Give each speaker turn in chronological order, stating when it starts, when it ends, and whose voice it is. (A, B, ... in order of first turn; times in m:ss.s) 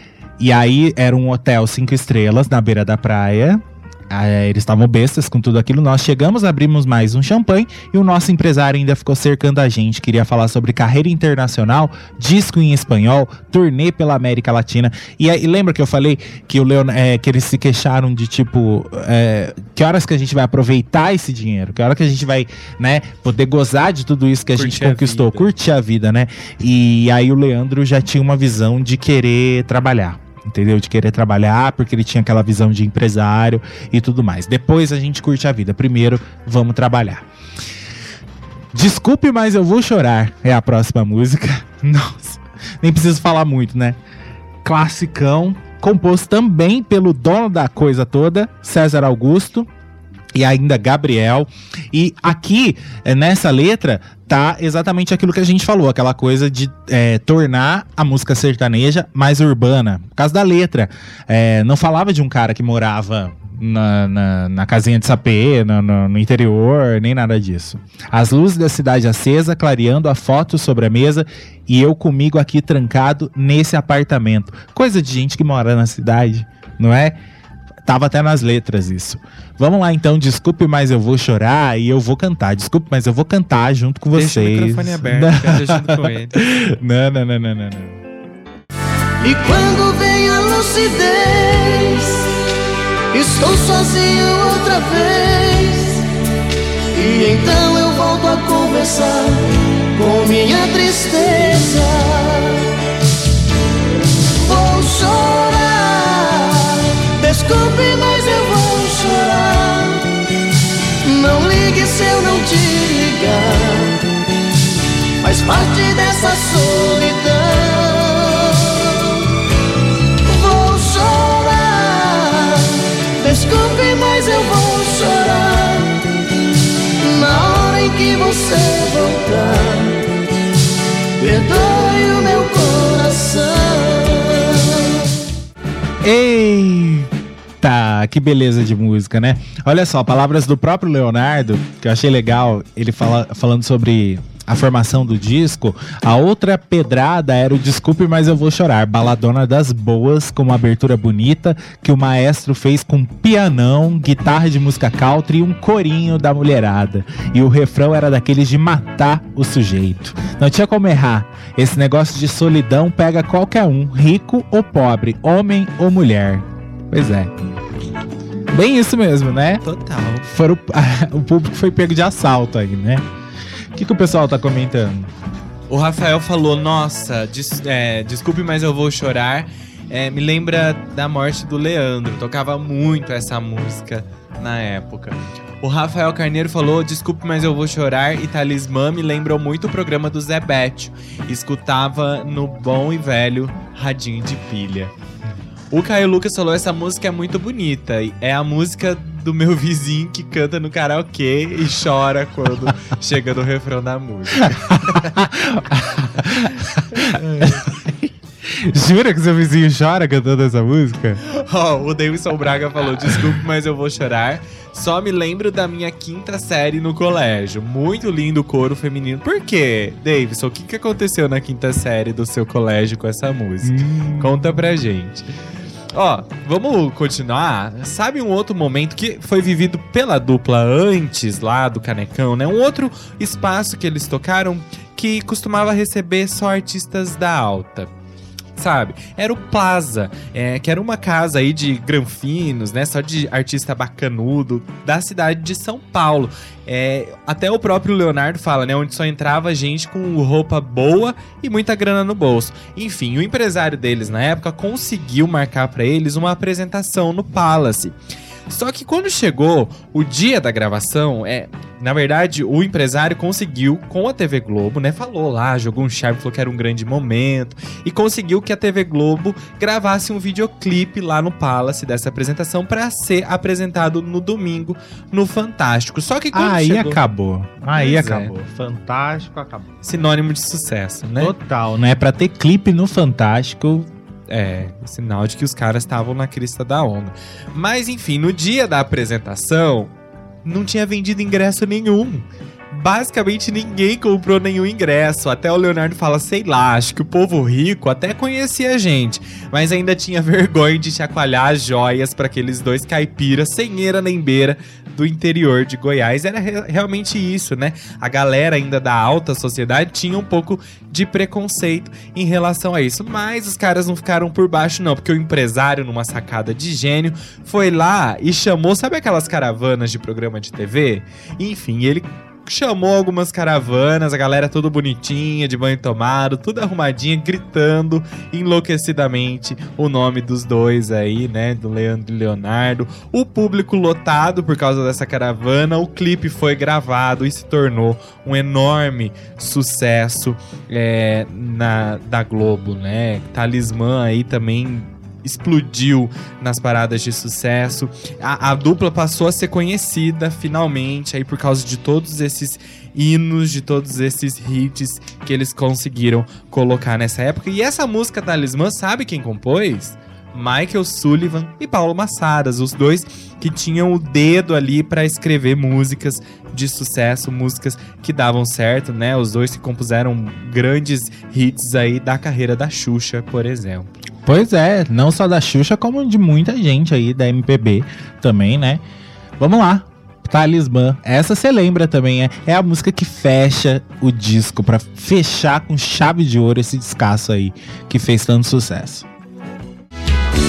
0:00.4-0:37.2 A
0:24.6-0:25.5 B
0:38.7-0:44.0 A
0:44.6-0:49.7 A
0:50.3-1:17.2 A
1:17.8-1:28.0 A
1:24.1-1:26.4 B
1:29.2-1:32.3 C
1:33.1-1:36.1 C
1:36.9-1:42.8 C
1:44.4-1:50.1 C
1:51.0-1:54.1 C
1:55.2-1:59.3 C
2:00.2-2:06.0 C
2:07.0-2:10.1 C
2:11.2-2:15.0 C
2:16.0-2:47.3 A
2:48.5-2:49.6 A
2:49.6-2:50.3 B
2:50.2-2:53.0 A
2:53.7-2:55.1 A
2:55.7-3:14.9 B
3:15.7-3:25.2 B
3:24.4-3:31.2 A
3:26.9-3:27.7 B
3:31.2-3:45.3 B
3:43.6-3:44.6 A
3:45.9-3:57.9 B
3:58.6-4:18.0 B
4:18.5-4:37.0 B
4:36.3-4:39.7 A
4:37.7-4:38.3 B
4:39.8-4:41.3 B
4:41.2-4:43.9 A
4:44.3-4:49.9 B
4:50.4-6:14.0 B
6:14.2-6:18.8 A
6:19.4-6:29.1 A